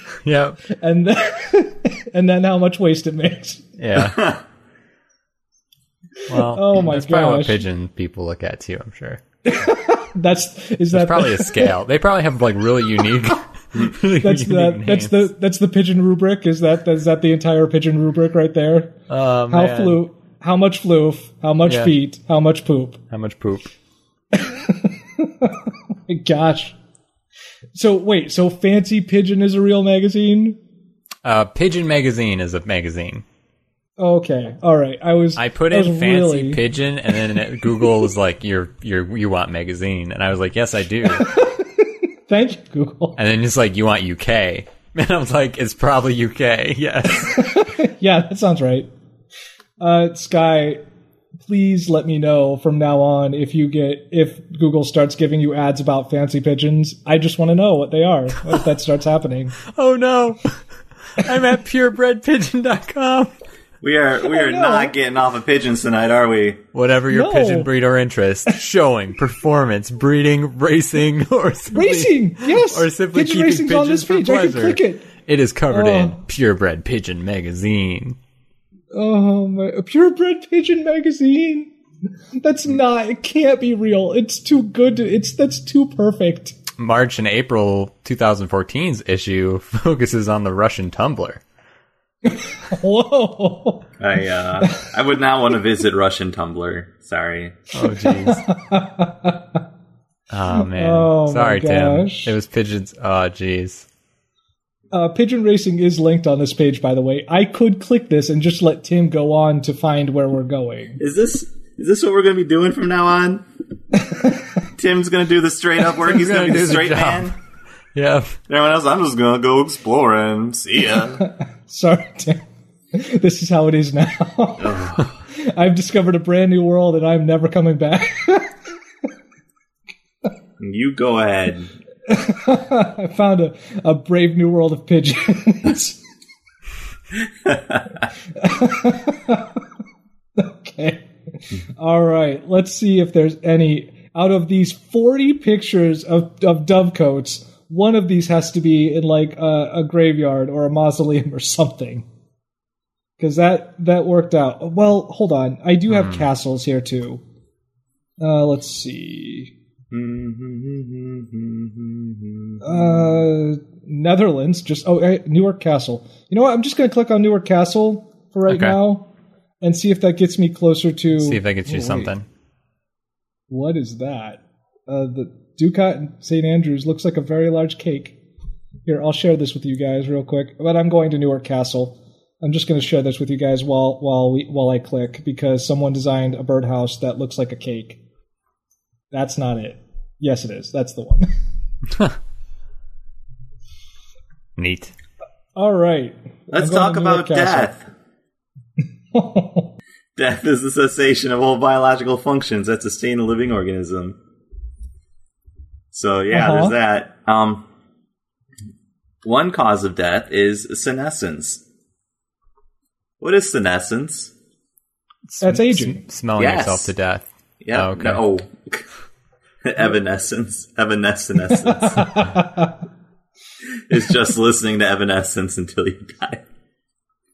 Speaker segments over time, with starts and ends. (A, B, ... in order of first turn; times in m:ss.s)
0:00.2-0:00.6 A
0:00.7-0:03.7 B
0:03.8-0:04.3 A
0:04.0-0:04.4 C
0:06.3-0:07.6 B
0:06.3-0:09.2 A
0:09.4-0:11.7 B
0:10.9-0:15.3 A
0:14.2-0:19.0 B
0:19.1-0:20.0 A
0:19.5-0:23.0 B
0:21.6-0:21.9 A
0:23.1-0:23.7 A
0:24.3-0:26.8 B
0:27.7-0:30.6 B
0:31.2-0:33.2 A
0:34.0-0:36.6 B
0:35.4-0:41.3 A
0:37.6-0:38.0 B
0:41.0-0:43.2 B
0:43.2-0:47.5 A
0:47.2-0:48.9 B
0:49.8-0:50.8 B
0:51.4-0:59.6 B
0:59.6-1:00.6 A
1:01.2-1:03.3 A
1:03.8-1:06.6 C
1:04.2-1:04.9 B
1:06.7-1:18.2 A
1:07.1-1:07.7 B
1:11.7-1:15.1 B
1:15.7-1:16.2 B
1:18.9-1:21.7 B
1:22.4-1:26.6 B
1:26.8-1:31.4 A
1:32.3-1:33.9 B
1:34.0-1:37.6 C
1:34.6-1:34.9 B
1:37.7-1:38.4 A
1:37.8-1:39.6 B
1:40.3-1:43.9 A
1:40.5-1:42.3 B
1:44.9-1:51.0 B
1:51.0-1:53.4 C
1:54.0-1:54.4 B
1:54.8-1:57.3 C
1:56.0-1:57.3 A
1:57.9-1:58.4 A
1:58.5-2:01.2 C
2:01.2-2:04.8 B
2:04.6-2:05.2 C
2:05.3-2:08.5 B
2:10.6-2:11.7 C
2:12.1-2:16.0 B
2:17.4-2:17.8 C
2:18.4-2:19.6 B
2:20.4-2:21.1 B
2:21.8-2:32.0 B
2:33.2-2:37.2 B
2:35.9-2:36.2 A
2:38.2-2:39.5 B
2:39.9-2:43.2 C
2:42.6-2:49.1 B
2:48.5-2:48.8 A
2:49.6-2:52.1 B
2:51.1-2:52.2 A
2:53.5-2:58.2 B
2:58.8-3:08.0 B
3:09.1-3:11.3 B
3:14.6-3:14.9 A
3:15.6-3:17.7 B
3:16.5-3:17.8 C
3:19.1-3:19.7 B
3:20.2-3:24.2 C
3:25.9-3:27.6 C
3:26.3-3:26.7 B
3:29.2-3:31.6 C
3:33.2-3:34.3 C
3:35.3-3:38.2 A
3:35.4-3:36.0 B
3:36.4-3:36.9 C
3:37.6-3:38.8 C
3:39.6-3:42.3 C
3:41.6-3:42.7 B
3:43.9-3:46.4 C